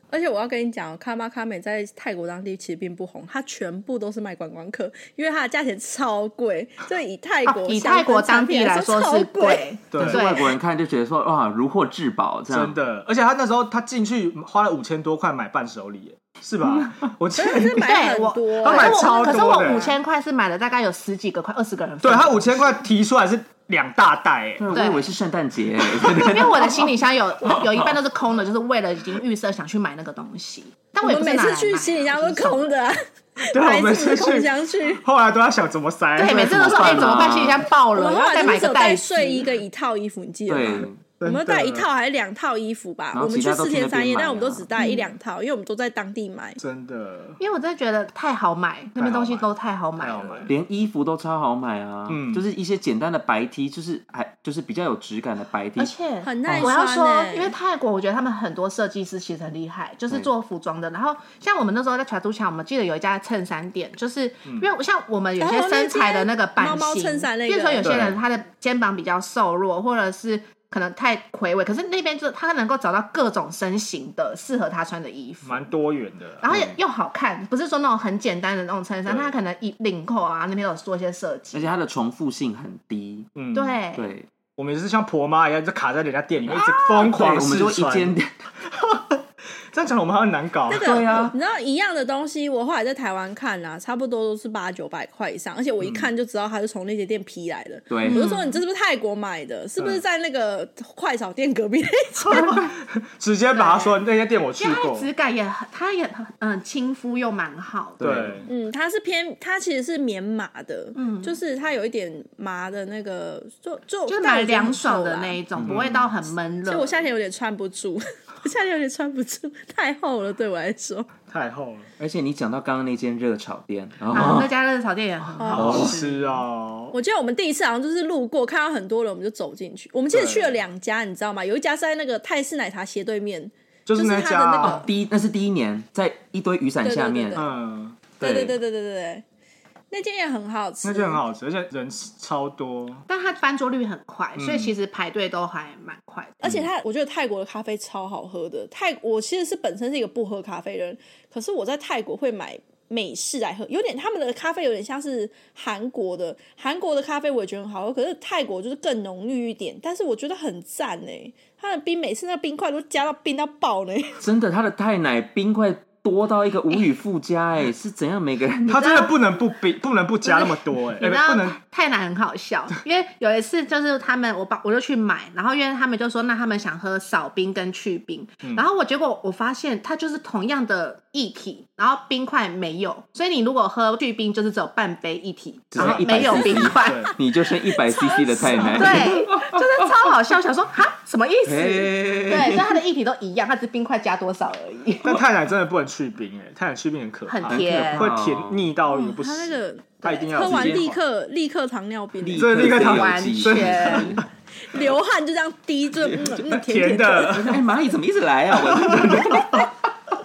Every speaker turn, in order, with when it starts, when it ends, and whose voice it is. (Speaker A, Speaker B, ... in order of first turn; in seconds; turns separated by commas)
Speaker A: 0.1-9.7, Speaker B: 7.5-10.5, Speaker C: 9.9-10.2, Speaker D: 10.0-12.8, Speaker C: 12.5-17.9, Speaker A: 17.3-19.9, Speaker B: 17.8-22.8, Speaker C: 18.6-19.9, Speaker C: 22.0-24.7, Speaker D: 24.6-27.9, Speaker B: 24.7-25.1, Speaker B: 26.0-32.7, Speaker A: 31.0-35.0, Speaker C: 33.5-37.4, Speaker B: 36.2-39.5, Speaker D: 36.6-37.7, Speaker A: 37.9-46.6, Speaker D: 40.5-41.0, Speaker C: 41.2-41.9, Speaker D: 43.1-44.7, Speaker B: 44.8-45.1, Speaker C: 46.6-47.4, Speaker B: 47.4-50.5, Speaker C: 49.0-50.5, Speaker D: 50.5-55.9, Speaker C: 52.1-52.4, Speaker B: 55.8-75.7, Speaker A: 56.2-57.5, Speaker A: 65.4-68.0, Speaker C: 67.8-68.2, Speaker C: 75.4-76.4, Speaker B: 76.4-81.7, Speaker D: 76.5-76.8, Speaker C: 79.0-79.3, Speaker D: 81.5-83.3, Speaker C: 83.3-83.8, Speaker B: 83.5-84.1, Speaker D: 83.9-84.3, Speaker C: 84.6-88.2, Speaker D: 86.5-88.3, Speaker C: 88.8-89.2, Speaker C: 89.7-91.2, Speaker A: 90.7-102.6, Speaker D: 90.7-91.3, Speaker D: 97.9-98.2, Speaker B: 98.0-98.6, Speaker C: 99.8-100.0, Speaker C: 102.2-105.1, Speaker B: 103.5-104.0, Speaker B: 104.6-108.0, Speaker D: 108.0-108.4, Speaker C: 108.0-108.5, Speaker A: 108.5-115.4, Speaker B: 110.9-111.4, Speaker B: 114.1-117.0, Speaker D: 115.6-115.9, Speaker C: 115.6-116.1, Speaker A: 116.7-121.1, Speaker C: 121.3-121.9, Speaker D: 122.0-124.5, Speaker B: 124.1-126.4, Speaker A: 125.4-125.8, Speaker C: 125.5-126.9, Speaker D: 125.6-126.0, Speaker A: 126.9-134.9, Speaker C: 130.1-130.6, Speaker C: 133.8-134.8, Speaker D: 134.6-137.4, Speaker A: 136.8-137.5, Speaker C: 137.3-138.6, Speaker A: 138.2-139.2, Speaker A: 139.9-141.2, Speaker C: 140.8-143.0, Speaker B: 143.1-146.4, Speaker C: 144.4-144.7, Speaker A: 146.4-164.2, Speaker D: 164.2-169.1, Speaker C: 168.7-171.6, Speaker B: 170.2-187.1, Speaker D: 185.7-189.9, Speaker C: 185.8-187.1, Speaker A: 187.8-188.8, Speaker B: 188.5-195.2, Speaker D: 191.4-192.8, Speaker C: 195.0-201.0, Speaker B: 197.3-198.1, Speaker D: 197.4-198.7, Speaker A: 198.9-202.5, Speaker D: 200.4-200.8, Speaker D: 202.2-204.2, Speaker C: 202.3-204.2, Speaker B: 202.6-204.2, Speaker A: 204.6-207.5, Speaker C: 206.3-207.6, Speaker D: 207.3-209.7, Speaker C: 208.6-209.7